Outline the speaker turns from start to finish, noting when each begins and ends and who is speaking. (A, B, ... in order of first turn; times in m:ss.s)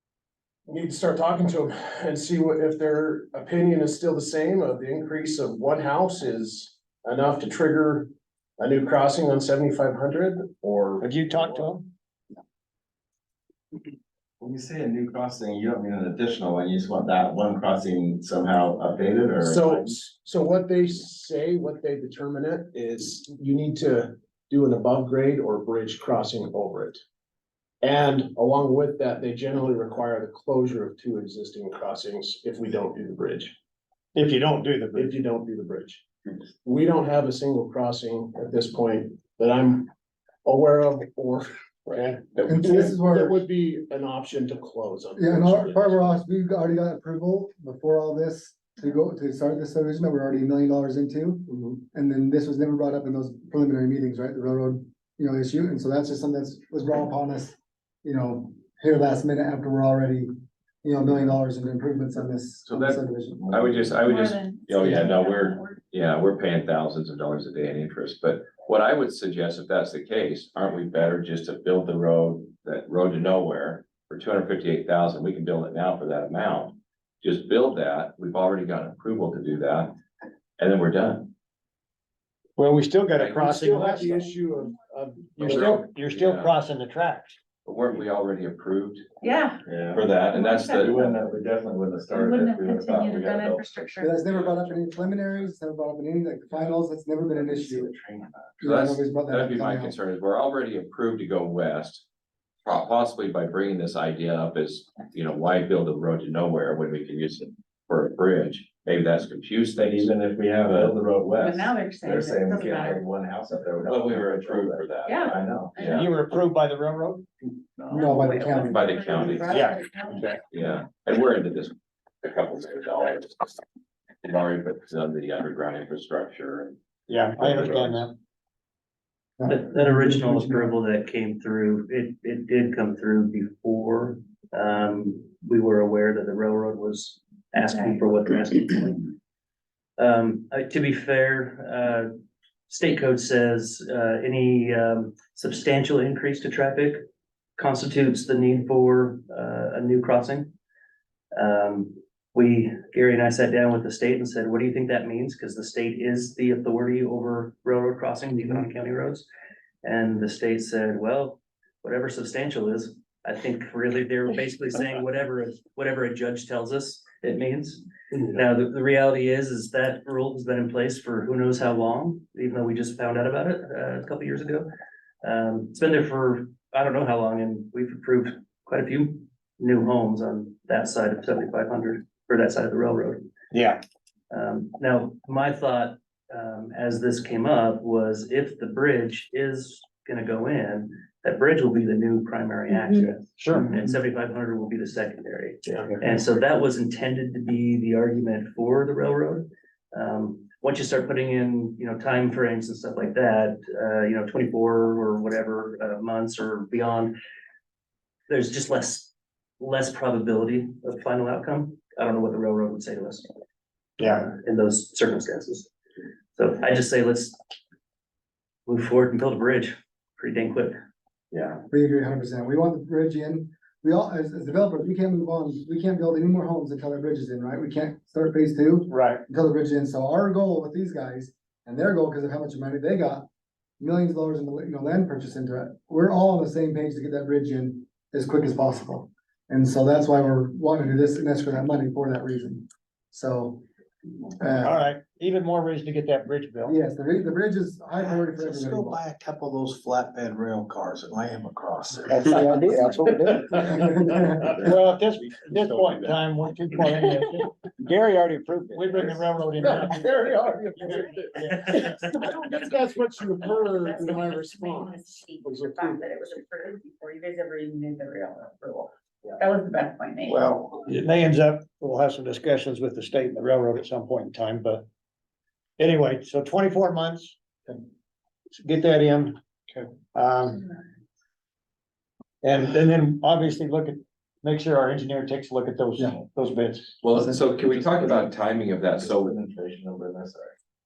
0:00.7-0:11.6 A
0:11.0-0:11.9 B
0:14.4-0:20.0 C
0:19.4-0:27.0 A
0:27.8-0:33.5 A
0:34.2-0:35.2 B
0:35.0-0:36.0 A
0:36.6-0:39.9 A
0:40.4-0:46.2 A
0:42.5-0:43.4 D
0:45.2-1:00.3 D
1:00.8-1:03.5 D
1:03.5-1:04.0 C
1:03.5-1:19.9 E
1:04.1-1:05.8 F
1:20.6-1:21.3 E
1:22.6-1:24.3 B
1:23.2-1:23.6 E
1:23.4-1:25.8 A
1:25.4-1:26.5 E
1:25.4-1:27.4 B
1:27.6-1:29.0 E
1:29.2-1:29.6 F
1:29.7-1:30.1 C
1:29.9-1:31.2 E
1:30.3-1:30.9 F
1:30.7-1:33.5 C
1:32.1-1:34.3 F
1:34.0-1:37.9 D
1:34.3-1:34.6 E
1:34.7-1:35.5 C
1:37.3-1:38.6 C
1:38.6-1:40.0 D
1:38.6-1:42.1 E
1:42.6-1:50.1 E
1:49.7-1:55.8 C
1:51.4-1:53.0 F
1:53.9-1:55.2 E
1:55.0-1:56.1 F
1:55.8-1:56.1 E
1:55.9-1:57.2 B
1:57.8-1:58.1 C
1:57.9-2:00.4 F
1:57.9-1:59.4 D
1:58.6-1:59.6 E
1:59.5-2:00.4 B
2:00.5-2:03.6 E
2:04.2-2:06.7 E
2:07.1-2:08.1 B
2:07.4-2:08.0 E
2:09.4-2:10.8 D
2:09.5-2:19.1 G
2:20.0-2:22.1 G
2:22.7-2:27.0 G
2:27.6-2:30.5 G
2:31.4-2:39.3 G
2:39.8-2:54.7 G
2:55.2-3:03.2 G
3:03.5-3:03.8 B
3:04.3-3:27.1 G
3:13.4-3:13.7 B
3:15.7-3:16.0 A
3:28.3-3:33.3 G
3:34.0-3:34.3 B
3:34.0-3:35.7 G
3:36.4-3:37.4 G
3:38.7-3:40.8 G
3:41.7-3:53.3 D
3:48.9-3:49.2 B
3:53.8-4:03.6 D
4:04.4-4:04.8 D
4:04.6-4:06.8 B
4:06.7-4:09.0 D
4:08.0-4:14.5 H
4:12.1-4:13.7 B
4:12.1-4:14.5 D
4:14.6-4:20.1 B
4:15.6-4:16.2 H
4:18.9-4:26.0 A
4:21.4-4:21.7 B
4:23.4-4:30.4 F
4:30.3-4:34.8 B
4:35.8-4:37.4 B
4:38.5-4:39.4 B
4:40.1-4:40.7 B
4:42.4-4:46.9 B
4:47.0-4:49.4 E
4:47.1-4:47.4 D
4:48.8-4:50.5 C